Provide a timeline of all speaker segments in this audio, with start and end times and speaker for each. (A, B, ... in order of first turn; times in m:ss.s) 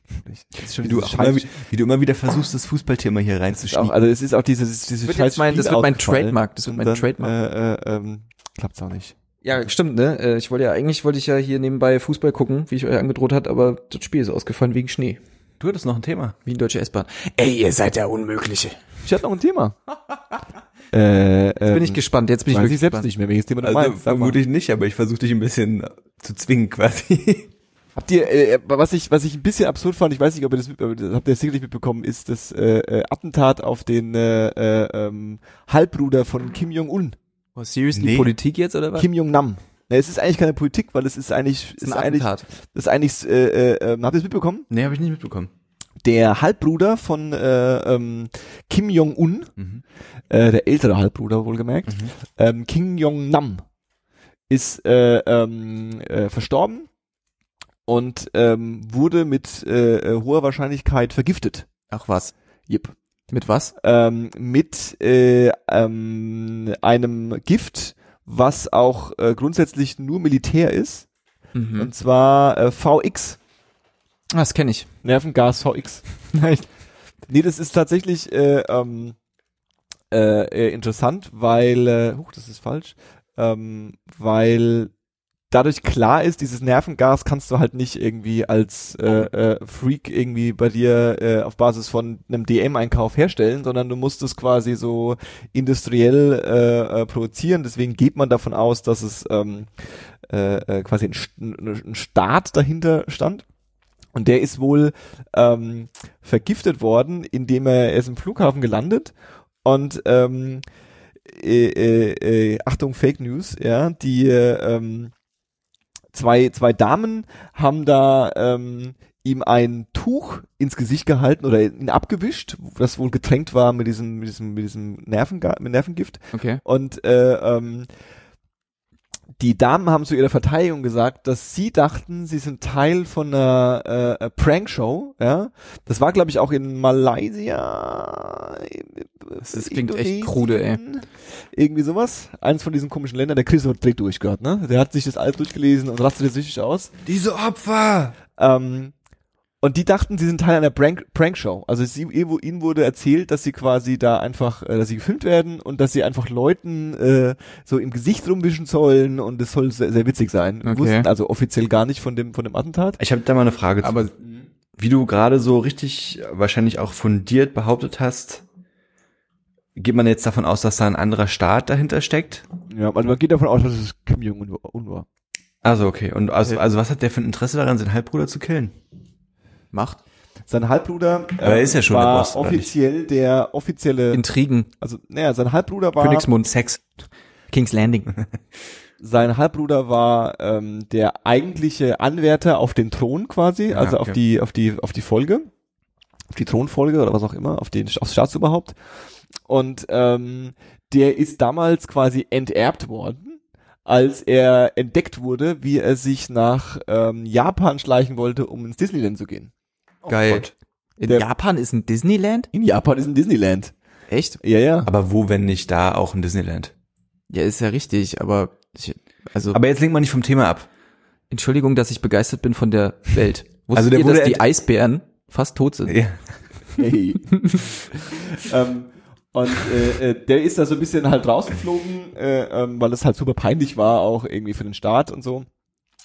0:00.3-0:01.5 A
0:00.8-0:04.0 B
0:03.6-0:09.1 A
0:05.1-0:07.3 C
0:09.4-0:15.2 C
0:15.6-0:16.4 B
0:16.5-0:18.8 C
0:19.0-0:19.8 A
0:20.9-0:22.0 A
0:21.7-0:23.1 C
0:22.5-0:24.4 A
0:23.6-0:27.5 B
0:28.0-0:37.2 A
0:37.6-0:39.1 C
0:37.9-0:38.3 B
0:39.0-0:44.7 A
0:41.8-0:42.4 C
0:44.7-0:45.5 B
0:46.0-0:49.5 A
0:50.3-0:53.6 A
0:54.5-0:56.9 A
0:57.9-1:01.7 A
1:01.9-1:02.3 C
1:02.7-1:03.0 A
1:03.3-1:03.7 C
1:03.8-1:11.1 A
1:11.6-1:11.9 C
1:11.8-1:13.4 A
1:14.3-1:14.9 C
1:15.0-1:16.0 A
1:16.3-1:16.7 C
1:17.3-1:19.2 A
1:20.1-1:24.9 A
1:25.5-1:39.7 A
1:40.3-1:43.4 A
1:44.2-1:49.1 A
1:49.6-1:50.6 A
1:51.3-1:55.1 A
1:56.1-2:07.9 A
2:06.3-2:06.6 C
2:09.4-2:26.9 A
2:19.4-2:20.8 C
2:27.0-2:28.2 B
2:28.4-2:28.9 A
2:29.6-2:43.0 A
2:40.6-2:41.1 C
2:43.0-2:44.1 B
2:43.8-2:44.1 C
2:44.8-2:48.4 B
2:49.8-2:52.5 B
2:52.7-2:55.1 A
2:55.6-2:58.8 B
2:59.7-3:00.0 C
3:00.5-3:04.2 A
3:01.4-3:02.7 B
3:04.1-3:04.7 C
3:04.8-3:06.3 A
3:06.0-3:06.8 C
3:06.5-3:06.8 B
3:07.5-3:08.1 C
3:09.0-3:15.5 A
3:13.7-3:14.2 B
3:16.3-3:18.7 A
3:19.5-3:29.5 A
3:30.1-3:30.5 B
3:30.1-3:32.5 C
3:32.5-3:33.7 A
3:34.1-3:34.4 C
3:34.4-3:34.9 A
3:34.9-3:36.7 B
3:37.3-3:39.6 C
3:39.5-3:40.7 B
3:41.3-3:46.0 C
3:43.7-3:44.4 B
3:45.9-3:46.2 B
3:46.8-3:47.4 A
3:47.9-3:55.5 A